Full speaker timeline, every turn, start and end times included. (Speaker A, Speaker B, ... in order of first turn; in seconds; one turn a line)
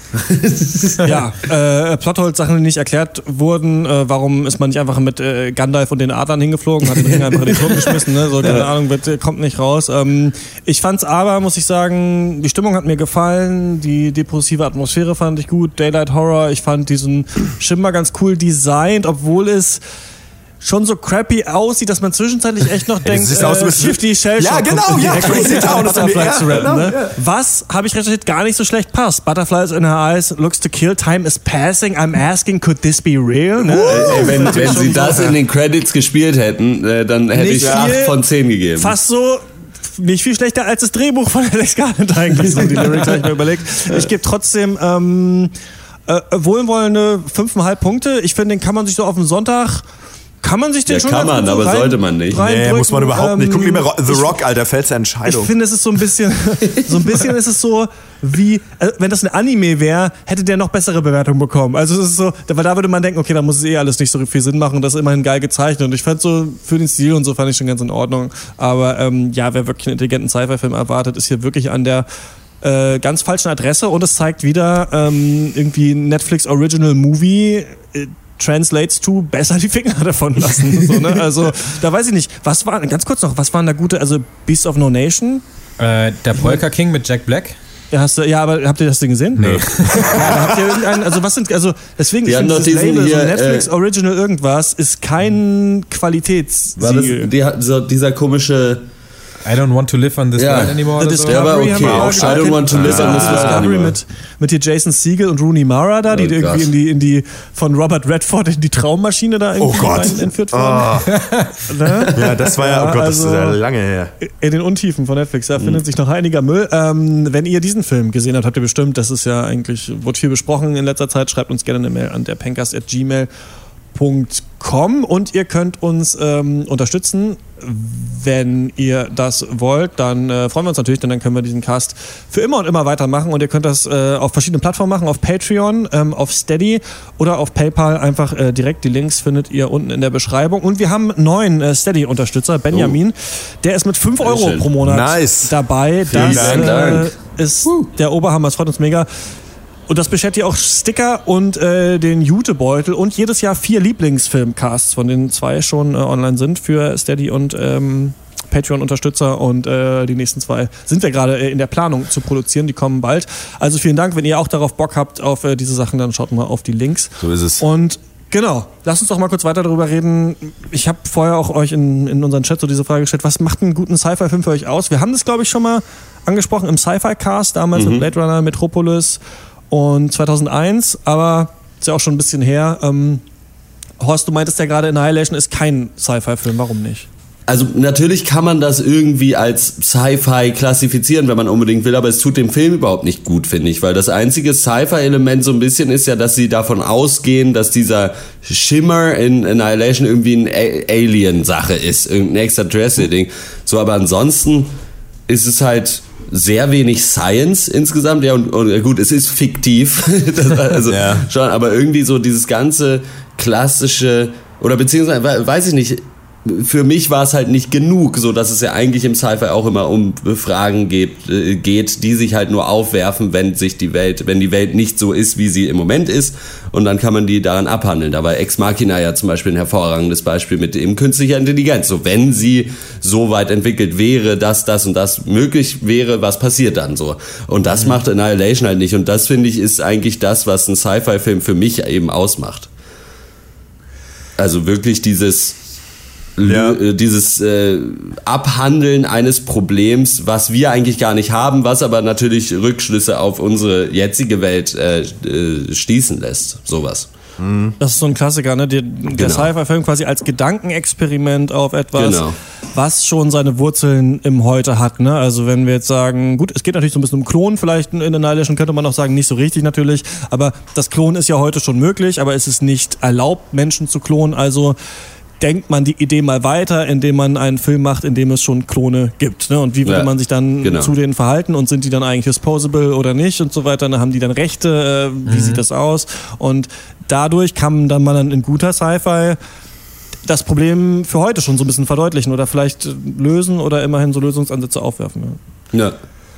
Speaker A: 0.2-1.0
Speaker B: 1.0-19.8
Speaker A: 7.0-8.7
Speaker B: 20.6-35.3
Speaker C: 23.0-27.1
Speaker A: 33.7-39.0
Speaker C: 34.0-35.1
Speaker B: 37.3-38.1
Speaker C: 37.6-38.0
Speaker B: 38.8-39.4
Speaker B: 40.0-45.5
Speaker A: 42.6-43.2
Speaker B: 46.1-49.8
Speaker B: 50.4-54.4
Speaker A: 50.9-52.4
Speaker C: 52.3-55.5
Speaker B: 55.2-72.1
Speaker B: 72.6-85.4
Speaker D: 85.8-87.5
Speaker B: 86.3-86.6
Speaker B: 87.9-97.3
Speaker D: 89.3-90.7
Speaker C: 89.5-90.3
Speaker A: 92.2-93.7
Speaker A: 96.8-98.8
Speaker D: 99.4-102.5
Speaker A: 100.4-103.9
Speaker B: 101.0-111.1
Speaker C: 102.7-103.7
Speaker A: 106.1-106.7
Speaker C: 109.6-111.2
Speaker D: 111.1-112.0
Speaker B: 111.7-113.6
Speaker C: 112.1-114.1
Speaker B: 114.2-123.3
Speaker B: 123.9-149.1
Speaker A: 144.2-144.7
Speaker C: 144.8-145.6
Speaker A: 146.1-147.1
Speaker C: 146.1-146.9
Speaker B: 149.9-183.2
Speaker C: 167.2-167.6
Speaker A: 177.7-178.1
Speaker B: 184.0-187.1
Speaker A: 187.5-204.7
Speaker A: 205.3-242.7
Speaker C: 210.8-211.3
Speaker A: 244.4-245.6
Speaker A: 246.4-257.1
Speaker C: 246.4-246.8
Speaker C: 257.4-257.8
Speaker B: 257.8-274.8
Speaker A: 259.1-259.5
Speaker A: 261.9-262.3
Speaker B: 275.4-289.4
Speaker A: 279.8-280.1
Speaker A: 280.6-280.9
Speaker D: 285.2-285.6
Speaker B: 290.2-295.4